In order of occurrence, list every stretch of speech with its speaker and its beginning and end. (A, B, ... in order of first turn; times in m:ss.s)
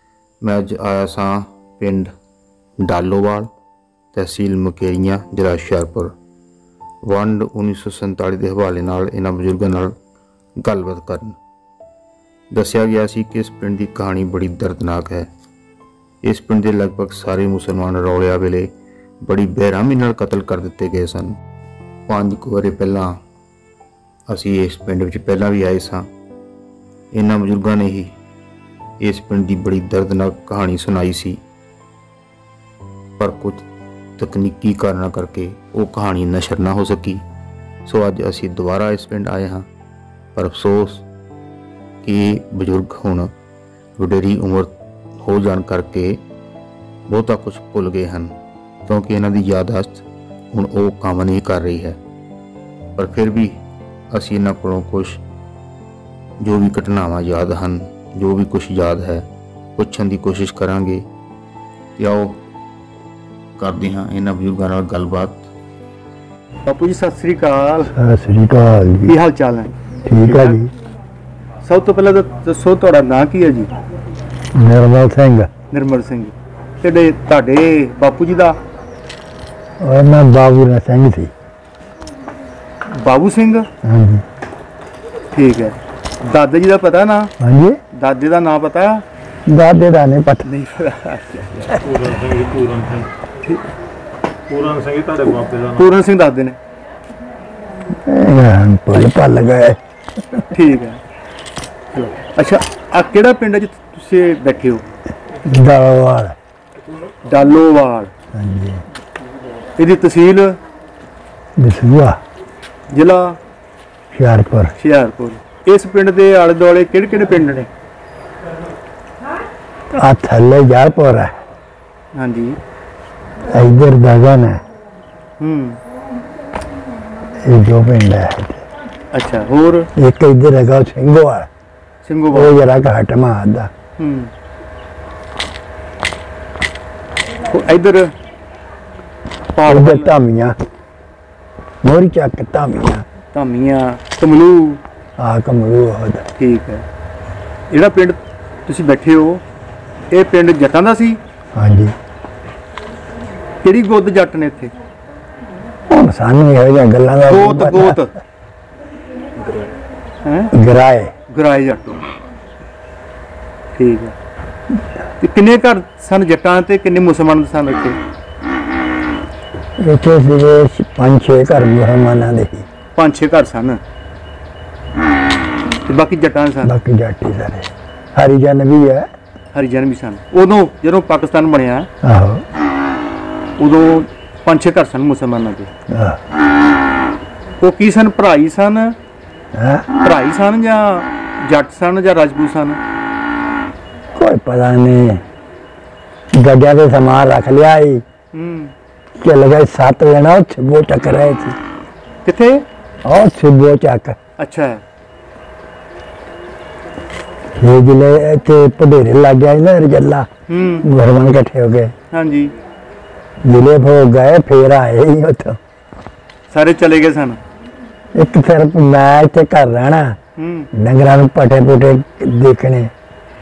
0:00.4-0:02.1 A
0:02.8-0:03.5 A
0:04.1-0:06.1 A
0:07.0-0:09.9 A
0:10.6-0:11.4 A
0:12.5-0:15.3 A
0:16.2-0:18.7 A
0:19.2-0:21.4 A
0:22.1-0:23.2 A
0:24.3-0:26.0 A
0:27.1-0:28.1 A
0:29.0-0:31.4 A
0:33.2-0:33.6 A
0:34.2-0:37.2 A
0:37.8-0:39.6 A
0:40.3-0:41.0 A
0:42.0-0:43.3 A
0:44.0-0:46.2 A
0:47.1-0:48.3 A
0:48.9-0:52.0 A
0:53.0-0:53.5 A
0:54.1-0:55.2 A
0:56.4-0:59.2 A
0:59.8-1:01.0 A
1:02.0-1:02.4 A
1:03.6-1:05.4 A
1:06.6-1:07.9 B
1:07.9-1:09.2 C
1:09.0-1:10.6 B
1:10.0-1:10.7 C
1:11.6-1:13.7 B
1:14.5-1:15.5 C
1:15.7-1:18.6 B
1:19.8-1:21.3 C
1:22.9-1:23.7 B
1:23.8-1:24.2 C
1:25.3-1:27.3 B
1:27.4-1:27.8 C
1:27.9-1:29.0 B
1:29.5-1:30.5 C
1:30.4-1:31.8 B
1:31.8-1:33.6 D
1:34.5-1:35.9 D
1:35.8-1:36.6 B
1:38.0-1:40.4 C
1:40.5-1:41.0 B
1:42.0-1:44.8 B
1:45.4-1:46.4 C
1:47.2-1:48.1 B
1:48.3-1:48.8 C
1:49.8-1:50.6 B
1:51.6-1:52.2 C
1:52.9-1:53.4 B
1:54.1-1:54.7 C
1:54.8-1:57.7 B
1:59.9-2:01.4 C
2:02.1-2:02.6 B
2:03.5-2:04.6 C
2:05.4-2:05.8 B
2:07.4-2:08.6 C
2:09.1-2:09.9 B
2:10.0-2:11.5 C
2:12.0-2:12.6 B
2:12.3-2:13.7 C
2:14.0-2:14.3 B
2:17.5-2:18.1 B
2:19.5-2:20.1 B
2:19.6-2:20.6 C
2:21.8-2:23.0 C
2:23.3-2:24.8 B
2:25.2-2:26.2 C
2:26.4-2:26.8 B
2:27.7-2:29.4 B
2:30.1-2:31.2 B
2:31.5-2:31.9 C
2:33.6-2:34.7 B
2:35.9-2:38.0 C
2:37.2-2:38.1 B
2:40.2-2:40.5 B
2:40.5-2:41.1 C
2:41.3-2:42.0 B
2:43.7-2:44.1 B
2:45.2-2:48.0 B
2:49.8-2:52.6 C
2:53.0-2:53.8 B
2:55.8-2:56.7 B
2:56.6-2:59.1 C
2:59.5-3:01.9 B
3:02.0-3:02.4 C
3:03.6-3:05.7 B
3:05.9-3:06.2 C
3:07.6-3:09.0 B
3:09.5-3:09.9 C
3:10.0-3:12.8 B
3:14.1-3:15.2 C
3:16.3-3:18.0 C
3:18.3-3:18.7 B
3:19.2-3:21.6 C
3:22.2-3:22.6 B
3:23.0-3:24.2 C
3:24.4-3:24.8 B
3:27.6-3:30.3 C
3:30.5-3:30.8 B
3:30.8-3:31.9 C
3:32.1-3:32.5 B
3:33.4-3:35.6 C
3:36.5-3:37.4 B
3:38.1-3:40.2 C
3:40.4-3:40.7 B
3:40.7-3:42.9 C